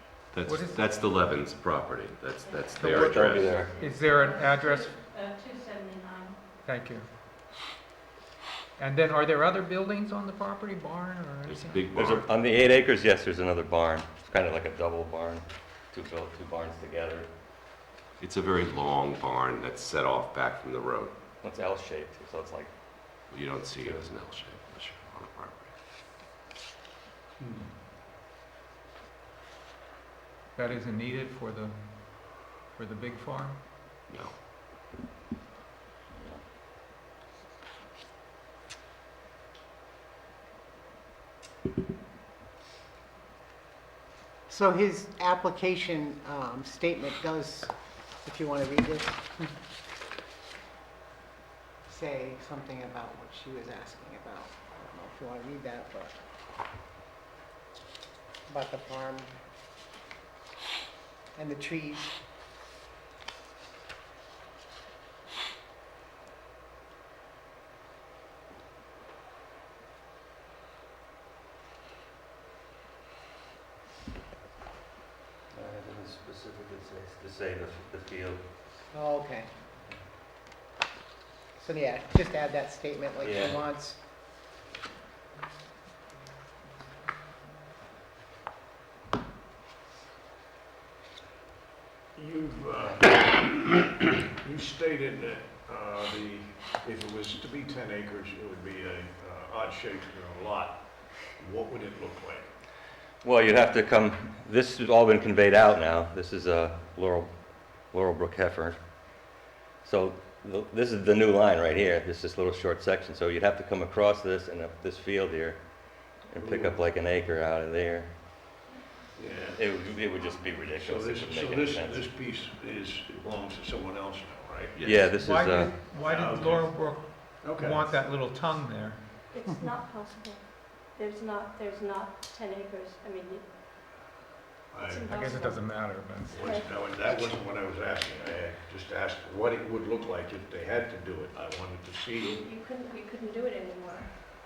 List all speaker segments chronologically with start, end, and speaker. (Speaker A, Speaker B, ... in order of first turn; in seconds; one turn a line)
Speaker A: 0.3-3.6
Speaker B: 0.5-0.8
Speaker C: 2.4-6.4
Speaker B: 2.8-4.9
Speaker D: 2.9-3.7
Speaker B: 6.6-7.1
Speaker B: 8.8-11.9
Speaker A: 11.5-12.3
Speaker D: 11.9-17.3
Speaker A: 18.2-21.2
Speaker D: 21.4-24.1
Speaker A: 23.3-25.7
Speaker B: 30.6-33.6
Speaker A: 34.1-34.4
Speaker D: 36.1-36.4
Speaker E: 44.5-49.5
Speaker E: 51.9-56.2
Speaker E: 58.5-59.3
Speaker E: 61.4-62.1
Speaker D: 75.5-78.4
Speaker E: 78.9-79.5
Speaker E: 81.6-84.0
Speaker D: 83.2-83.6
Speaker F: 92.2-102.5
Speaker D: 103.2-118.1
Speaker F: 116.3-116.8
Speaker F: 119.2-119.7
Speaker D: 119.6-122.1
Speaker F: 120.7-124.8
Speaker A: 124.8-125.0
Speaker D: 124.8-125.8
Speaker B: 125.2-129.5
Speaker F: 126.0-127.9
Speaker C: 129.3-133.5
Speaker F: 134.7-135.1
Speaker C: 134.8-137.1
Speaker B: 135.1-136.4
Speaker F: 136.3-142.4
Speaker C: 142.3-144.1